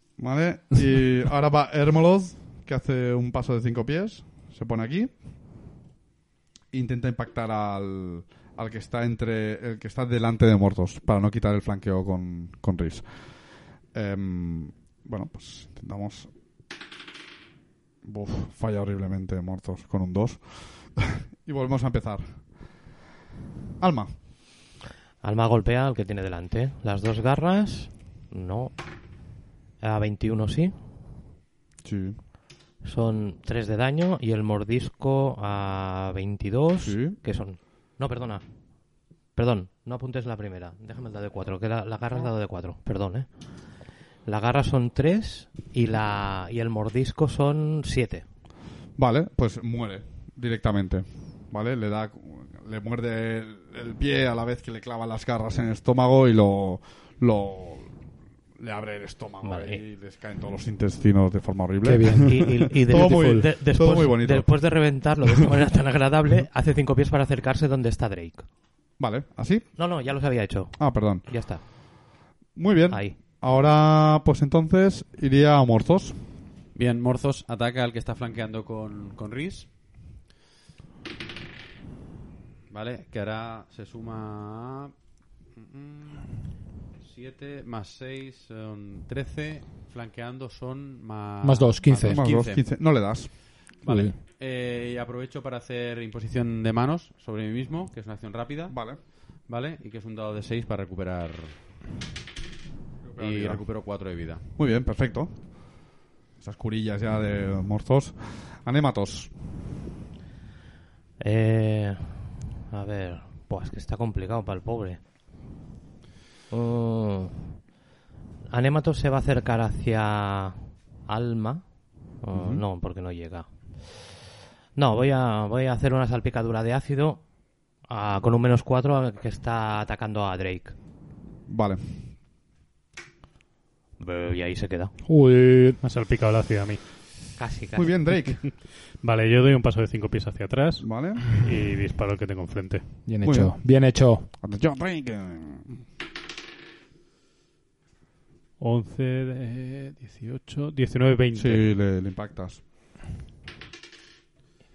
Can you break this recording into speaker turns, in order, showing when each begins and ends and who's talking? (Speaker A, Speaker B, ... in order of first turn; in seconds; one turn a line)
Speaker A: 0.2-5.1
Speaker A: 6.7-13.2
Speaker A: 13.9-16.3
Speaker A: 18.0-22.4
Speaker A: 23.8-24.1
Speaker B: 25.2-28.7
Speaker B: 29.8-30.7
Speaker A: 31.8-32.2
Speaker B: 32.8-38.4
Speaker A: 36.8-37.2
Speaker B: 39.4-43.3
Speaker B: 44.2-48.2
Speaker A: 49.0-57.9
Speaker A: 58.6-64.5
Speaker B: 59.4-59.8
Speaker C: 61.8-62.5
Speaker B: 62.2-68.5
Speaker A: 65.3-65.5
Speaker A: 69.0-69.7
Speaker B: 69.8-71.6
Speaker A: 70.8-71.3
Speaker A: 72.5-76.2
Speaker B: 72.9-73.2
Speaker D: 76.8-79.7
Speaker D: 82.7-84.9
Speaker D: 85.5-86.4
Speaker D: 87.0-92.6
Speaker C: 91.4-92.2
Speaker A: 92.1-93.3
Speaker D: 93.8-98.9
Speaker C: 93.8-94.2
Speaker A: 98.7-99.0
Speaker D: 99.4-101.6
Speaker A: 103.0-103.7
Speaker D: 103.2-104.4
Speaker A: 104.6-105.6
Speaker A: 106.4-109.3
Speaker B: 111.2-115.0
Speaker B: 116.5-117.5
Speaker B: 118.5-121.6
Speaker B: 122.2-124.2
Speaker A: 122.3-122.6
Speaker B: 124.8-127.2
Speaker B: 127.9-130.8
Speaker A: 131.5-132.0
Speaker B: 134.0-134.9
Speaker C: 135.1-135.8
Speaker E: 135.8-136.8
Speaker B: 137.4-138.0
Speaker A: 137.8-138.4
Speaker E: 139.0-142.8
Speaker A: 140.8-141.3
Speaker C: 143.1-144.3
Speaker A: 143.2-143.6
Speaker A: 144.4-145.8
Speaker E: 148.6-151.7
Speaker A: 151.3-152.6